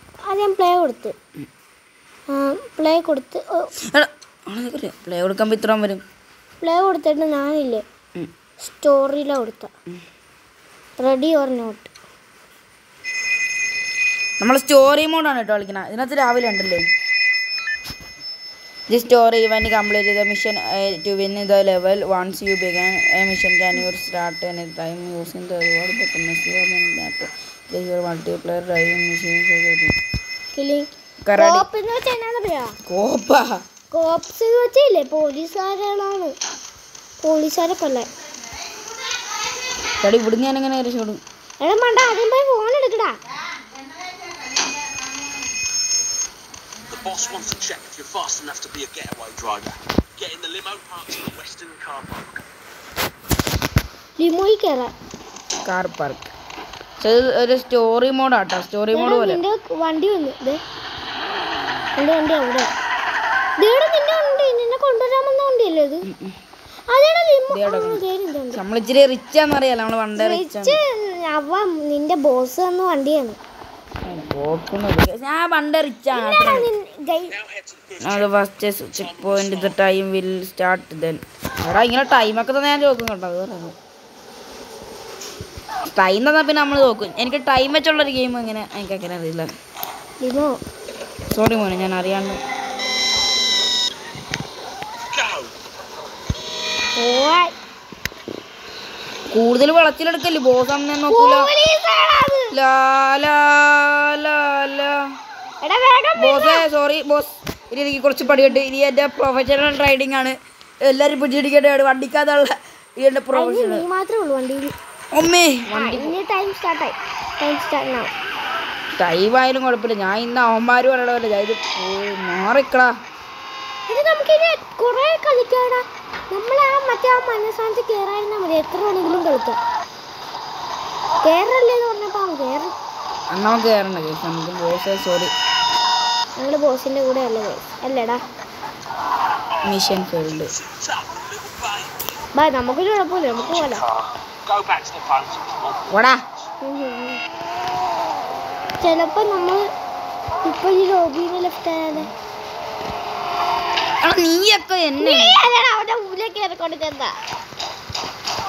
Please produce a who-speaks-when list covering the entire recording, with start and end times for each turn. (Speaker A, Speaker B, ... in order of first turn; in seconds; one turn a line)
Speaker A: 0.2-1.1
Speaker A: 2.3-3.7
Speaker B: 3.9-6.0
Speaker A: 6.6-7.8
Speaker A: 8.6-9.7
Speaker A: 11.0-11.9
Speaker B: 14.4-16.8
Speaker B: 18.9-29.9
Speaker A: 30.5-32.8
Speaker B: 31.2-31.6
Speaker B: 32.9-33.6
Speaker A: 33.9-36.3
Speaker A: 37.2-38.1
Speaker B: 40.0-41.2
Speaker A: 41.6-43.2
Speaker C: 46.9-52.4
Speaker A: 54.2-54.9
Speaker B: 55.6-56.3
Speaker B: 57.0-59.4
Speaker A: 58.9-60.6
Speaker A: 62.0-62.7
Speaker A: 63.6-66.1
Speaker B: 66.0-66.3
Speaker A: 66.9-68.6
Speaker B: 67.5-68.0
Speaker B: 68.5-70.8
Speaker A: 70.1-73.4
Speaker B: 74.0-76.7
Speaker A: 76.1-77.4
Speaker C: 77.4-78.2
Speaker B: 78.0-83.8
Speaker C: 79.1-79.6
Speaker B: 85.9-89.5
Speaker A: 90.2-90.6
Speaker B: 91.3-92.4
Speaker C: 95.1-95.5
Speaker A: 97.0-97.5
Speaker B: 99.3-101.5
Speaker A: 101.1-102.5
Speaker B: 102.5-105.0
Speaker A: 105.6-106.6
Speaker B: 106.2-110.3
Speaker B: 110.9-113.8
Speaker A: 113.3-114.7
Speaker B: 115.1-116.1
Speaker A: 115.7-118.1
Speaker B: 119.0-122.9
Speaker A: 123.9-129.6
Speaker A: 131.2-132.7
Speaker B: 133.3-135.3
Speaker A: 136.4-138.2
Speaker B: 139.6-140.5
Speaker C: 140.6-142.1
Speaker A: 142.3-143.9
Speaker C: 143.6-145.9
Speaker B: 145.9-146.2
Speaker A: 146.6-147.2
Speaker A: 148.8-149.7
Speaker A: 150.4-152.1
Speaker B: 154.0-155.4
Speaker A: 155.0-157.2